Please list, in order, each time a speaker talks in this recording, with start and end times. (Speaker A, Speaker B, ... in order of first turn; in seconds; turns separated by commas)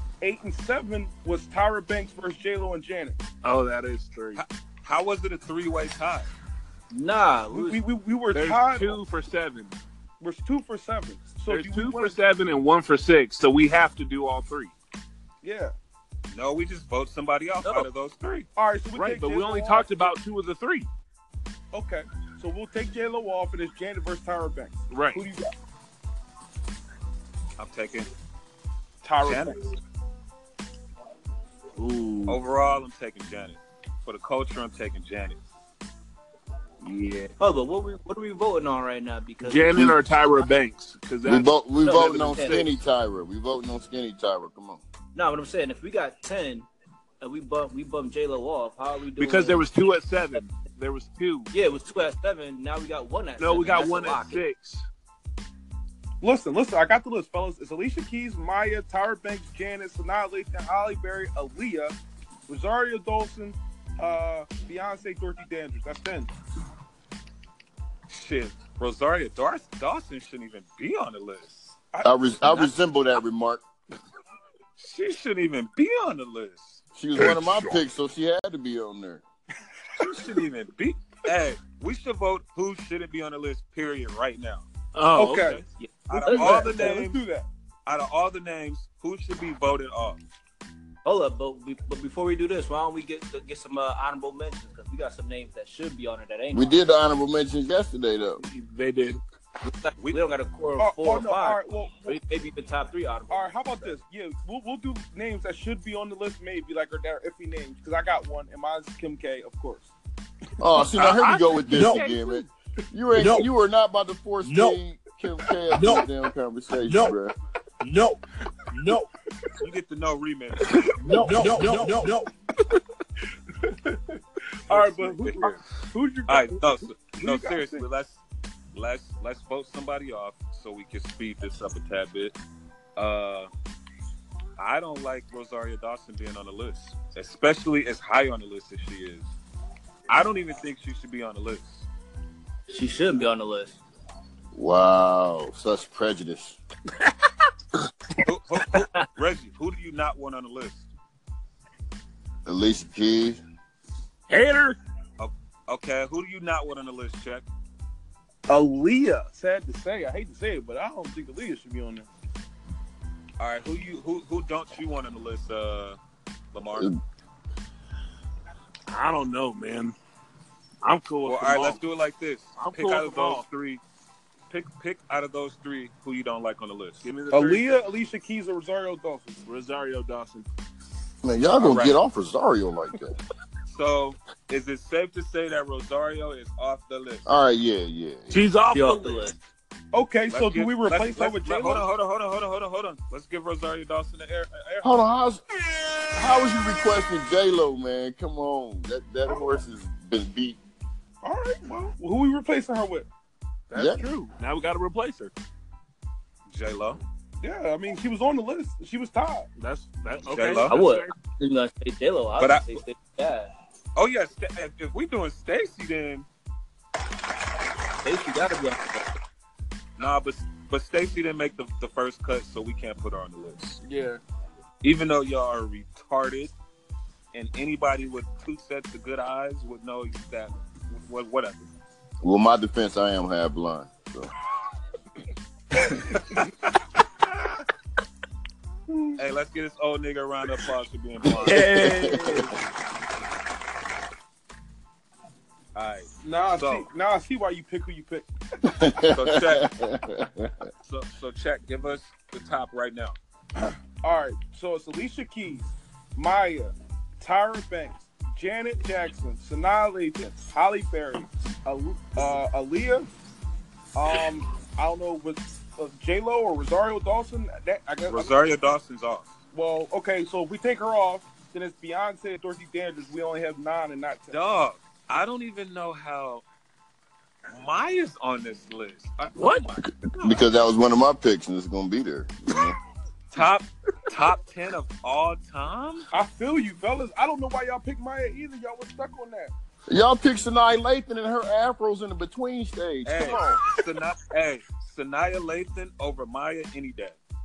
Speaker A: 0.2-3.2, Speaker B: 3.4-4.4, Speaker C: 4.4-6.3, Speaker D: 6.9-7.8, Speaker A: 7.5-9.0, Speaker B: 8.3-9.8, Speaker A: 10.2-12.2, Speaker B: 11.5-14.7, Speaker A: 15.4-15.7, Speaker C: 16.3-18.5, Speaker A: 18.6-20.1, Speaker B: 18.9-20.9, Speaker A: 21.7-25.5, Speaker B: 24.9-25.2, Speaker C: 27.6-28.1, Speaker A: 29.0-29.6, Speaker C: 29.2-29.8, Speaker B: 31.8-32.4, Speaker C: 32.3-35.4, Speaker B: 36.8-37.3, Speaker D: 37.4-39.9, Speaker B: 39.4-42.4, Speaker E: 41.2-44.8, Speaker D: 41.8-42.7, Speaker D: 45.1-46.7, Speaker D: 47.2-49.7, Speaker B: 49.2-51.5, Speaker D: 51.5-54.4, Speaker B: 53.4-54.9, Speaker A: 56.2-62.0, Speaker A: 62.5-66.3, Speaker C: 68.1-71.7, Speaker A: 71.9-72.7, Speaker E: 72.0-73.6, Speaker C: 74.8-76.8, Speaker E: 77.0-79.2, Speaker C: 80.0-84.7, Speaker B: 85.0-85.6, Speaker A: 85.2-85.6, Speaker D: 85.8-87.0, Speaker C: 86.1-87.2, Speaker A: 86.2-87.5, Speaker C: 87.9-90.2, Speaker D: 91.0-96.8, Speaker E: 96.5-98.4, Speaker B: 98.4-99.2, Speaker D: 99.6-104.0, Speaker A: 100.8-102.2, Speaker A: 103.3-109.9, Speaker E: 110.6-117.3, Speaker B: 111.0-112.5, Speaker F: 111.7-112.1, Speaker F: 113.1-113.5, Speaker F: 114.4-114.8, Speaker F: 115.7-116.1, Speaker F: 116.8-117.2, Speaker F: 117.8-119.1, Speaker C: 119.6-120.9, Speaker F: 121.0-122.3, Speaker B: 121.1-121.8, Speaker E: 121.5-121.8, Speaker A: 123.6-127.8, Speaker C: 124.7-125.6, Speaker C: 126.3-128.2, Speaker C: 128.7-132.3, Speaker C: 133.0-133.5, Speaker C: 134.6-139.3, Speaker C: 140.1-141.9, Speaker D: 142.7-143.8, Speaker E: 144.5-146.6, Speaker C: 148.2-150.9, Speaker E: 152.5-153.4, Speaker B: 154.3-154.8, Speaker C: 155.2-157.4, Speaker A: 158.5-162.1, Speaker C: 163.4-166.0, Speaker C: 166.5-166.9, Speaker B: 168.9-170.0, Speaker B: 170.8-171.8, Speaker C: 171.2-173.8, Speaker B: 172.6-173.4, Speaker C: 174.5-177.1, Speaker B: 177.0-177.7, Speaker A: 177.3-179.4, Speaker B: 179.5-180.5, Speaker E: 181.2-183.2, Speaker C: 181.6-182.0, Speaker C: 183.7-187.3, Speaker E: 187.3-188.4, Speaker B: 188.3-189.3, Speaker D: 188.7-189.3, Speaker A: 189.9-191.8, Speaker C: 190.3-194.9, Speaker E: 194.8-195.4, Speaker E: 196.2-200.6, Speaker A: 199.3-199.6, Speaker A: 201.2-203.1, Speaker B: 203.7-205.3, Speaker E: 203.7-204.0, Speaker C: 206.5-207.0, Speaker A: 207.4-209.5, Speaker B: 209.6-211.1, Speaker C: 210.3-210.8, Speaker D: 210.7-213.5, Speaker C: 212.4-212.8, Speaker C: 213.9-216.3, Speaker D: 218.0-219.1, Speaker C: 220.0-223.8, Speaker A: 223.8-224.2, Speaker C: 224.8-226.5, Speaker C: 227.3-231.7, Speaker E: 232.2-234.3, Speaker A: 238.9-239.2, Speaker C: 239.2-241.7, Speaker B: 241.4-242.5, Speaker E: 241.5-242.4, Speaker C: 245.8-246.9, Speaker A: 246.2-248.3, Speaker E: 248.6-250.5, Speaker C: 249.1-249.7, Speaker C: 250.8-253.2, Speaker A: 253.6-263.1, Speaker A: 263.9-268.3, Speaker C: 268.1-269.4, Speaker A: 269.5-274.4, Speaker C: 274.3-276.4, Speaker C: 277.5-280.4, Speaker B: 279.4-279.7, Speaker E: 279.8-282.8, Speaker C: 283.3-286.1, Speaker A: 286.1-289.5, Speaker E: 289.9-293.6, Speaker C: 293.1-297.2